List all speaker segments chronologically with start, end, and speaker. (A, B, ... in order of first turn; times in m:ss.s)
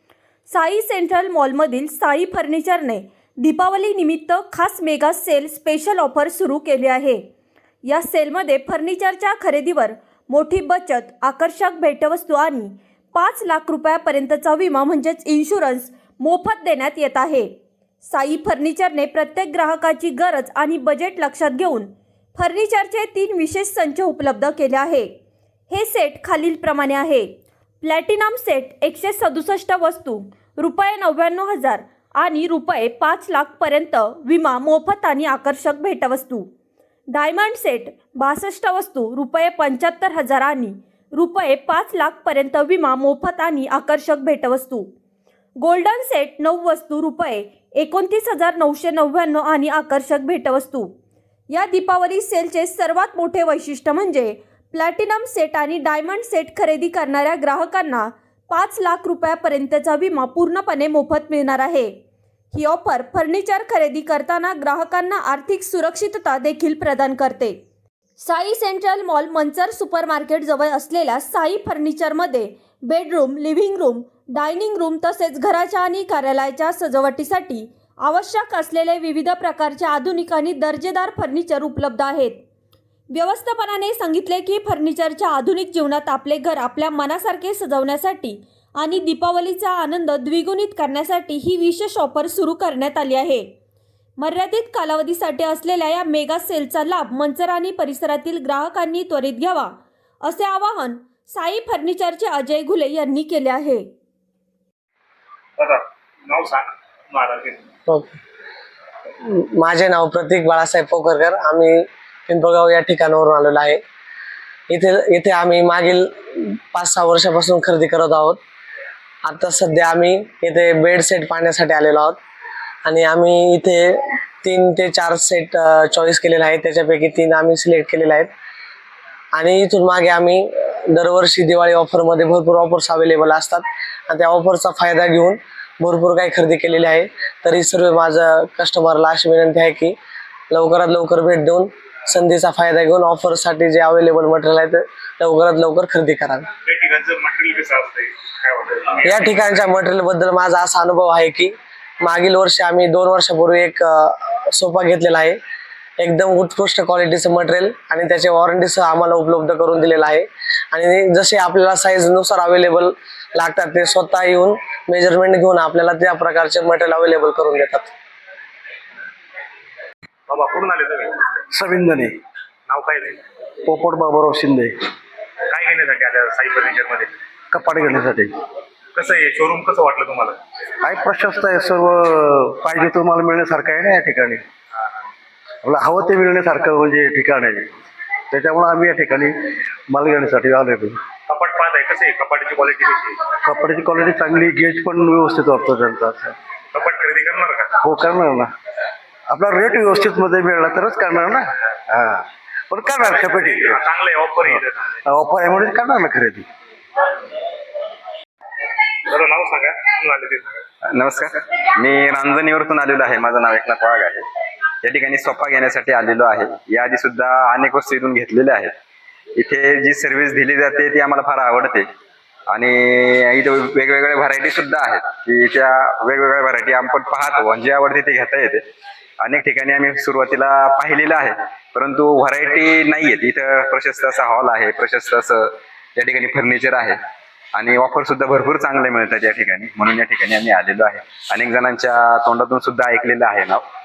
0:00.5-0:07.2 A
0:07.8-0:17.5 A
0:18.0-0:25.1 A
0:25.7-0:27.3 A
0:27.8-0:36.5 A
0:37.1-0:44.9 A
0:45.6-0:50.9 A
0:51.5-1:01.9 A
1:02.5-1:07.6 A
1:08.2-1:22.4 A
1:23.1-1:33.5 A
1:34.2-1:43.9 A
1:45.6-1:47.6 B
1:47.9-1:48.2 C
1:49.3-1:53.8 C
1:54.7-1:58.4 C
1:59.2-2:02.2 C
2:02.8-2:08.3 C
2:09.4-2:20.0 C
2:20.5-2:26.5 C
2:26.6-2:29.2 B
2:29.1-2:35.4 C
2:36.0-2:47.9 C
2:50.3-2:51.3 B
2:51.5-2:52.1 D
2:52.7-2:53.2 B
2:53.7-2:54.7 D
2:55.5-2:57.1 B
2:57.5-2:58.4 D
2:59.0-3:00.4 B
3:00.8-3:04.4 D
3:05.6-3:07.6 D
3:08.3-3:09.3 D
3:09.9-3:11.0 D
3:11.3-3:13.3 B
3:13.4-3:16.4 D
3:16.7-3:17.8 B
3:17.8-3:18.5 D
3:19.3-3:23.8 D
3:22.9-3:25.0 B
3:24.5-3:26.5 D
3:29.1-3:30.6 B
3:30.9-3:34.3 E
3:34.8-3:38.7 E
3:39.4-3:41.9 E
3:42.5-3:48.6 E
3:49.2-3:57.0 E
3:57.5-4:03.6 E